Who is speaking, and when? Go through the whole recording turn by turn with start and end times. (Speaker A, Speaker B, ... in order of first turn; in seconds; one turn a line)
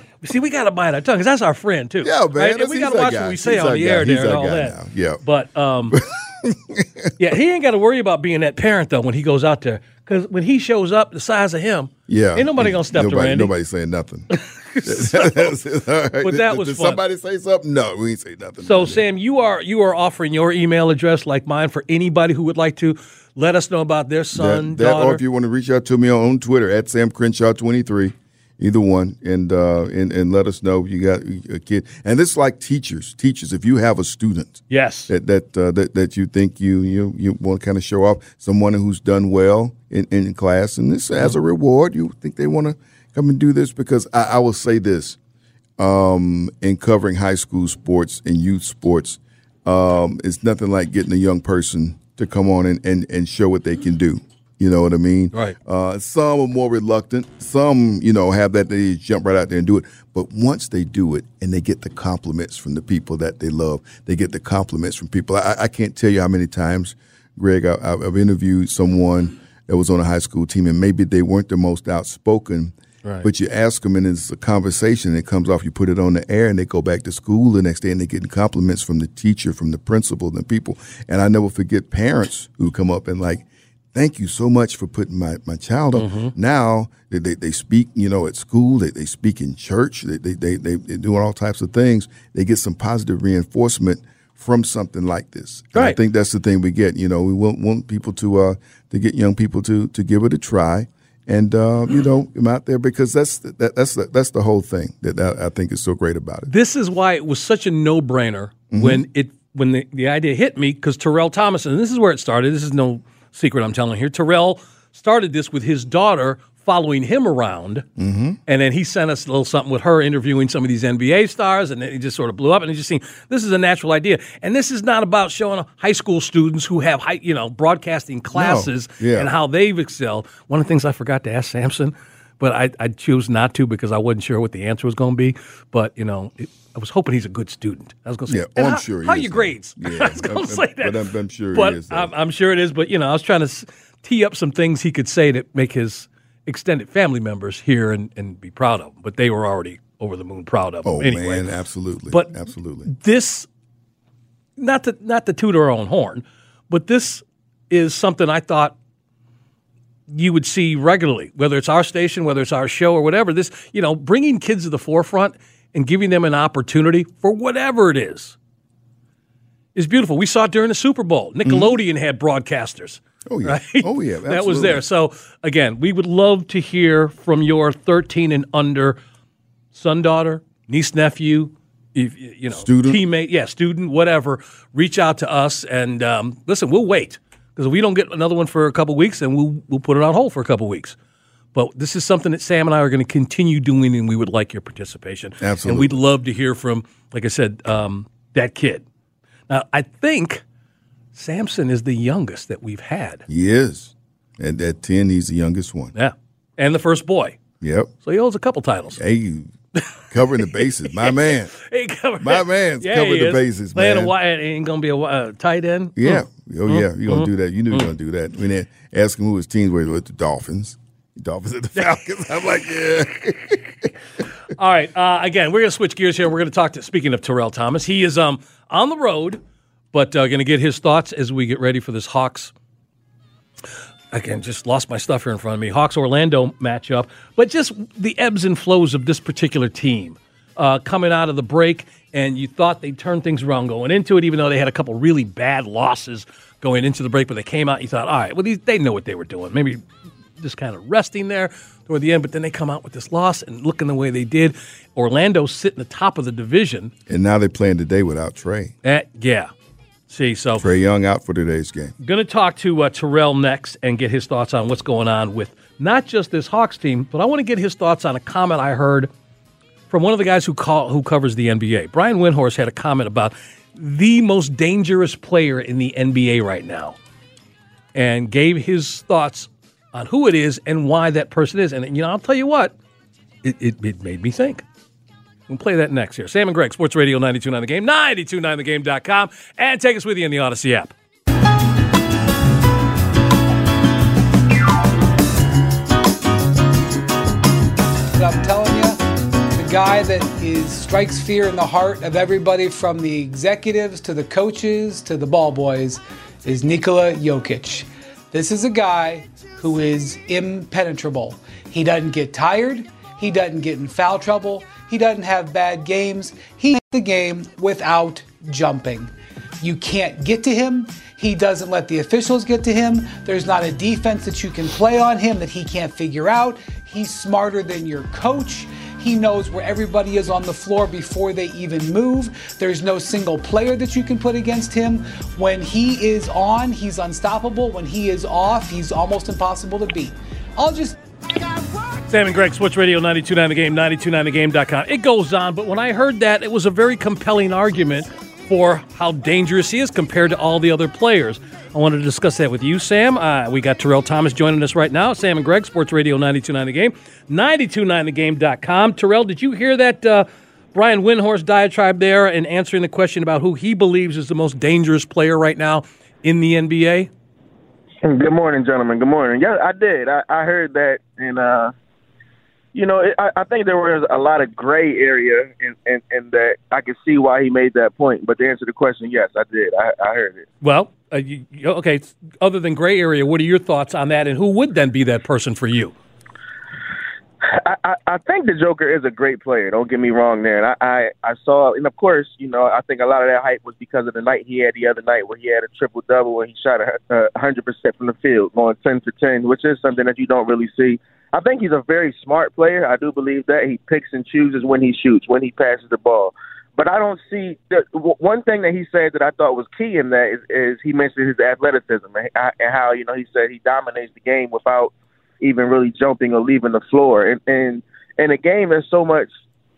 Speaker A: 0.2-6.0
Speaker B: 2.0-5.2
Speaker B: 5.9-7.1
Speaker A: 7.2-13.5
Speaker B: 12.1-14.3
Speaker A: 14.3-15.6
Speaker B: 14.8-19.0
Speaker A: 16.2-17.0
Speaker A: 18.6-25.2
Speaker B: 24.3-45.2
Speaker A: 34.7-35.1
Speaker B: 45.8-106.5
Speaker A: 85.9-86.3
Speaker A: 106.5-117.8
Speaker B: 108.7-109.0
Speaker B: 118.0-118.4
Speaker A: 118.5-141.0
Speaker B: 128.3-129.3
Speaker B: 138.3-142.1
Speaker A: 141.5-151.5
Speaker B: 150.8-152.9
Speaker A: 152.8-153.5
Speaker A: 154.6-158.7
Speaker A: 160.1-168.3
Speaker A: 169.7-179.0
Speaker B: 171.4-171.7
Speaker B: 173.2-174.8
Speaker A: 179.7-190.9
Speaker B: 182.5-183.0
Speaker A: 191.5-198.8
Speaker B: 195.4-196.0
Speaker A: 199.5-200.4
Speaker A: 201.1-203.2
Speaker B: 203.3-205.9
Speaker A: 205.9-207.4
Speaker B: 207.6-207.9
Speaker A: 208.0-209.0
Speaker B: 208.9-209.5
Speaker B: 210.1-211.5
Speaker A: 210.4-217.9
Speaker B: 212.2-214.1
Speaker B: 215.9-223.9
Speaker A: 224.5-229.4
Speaker A: 229.9-232.5
Speaker A: 234.1-249.8
Speaker A: 250.4-256.9
Speaker B: 257.1-258.7
Speaker A: 258.8-259.5
Speaker A: 260.1-260.7
Speaker B: 260.6-261.9
Speaker A: 262.0-269.1
Speaker A: 269.9-276.9
Speaker A: 277.9-282.7
Speaker A: 283.4-284.6
Speaker A: 285.5-290.9
Speaker C: 298.1-299.0
Speaker C: 299.5-340.9
Speaker A: 342.1-367.1
Speaker D: 368.0-371.7
Speaker D: 372.7-380.4
Speaker A: 380.6-385.9
Speaker D: 387.4-419.3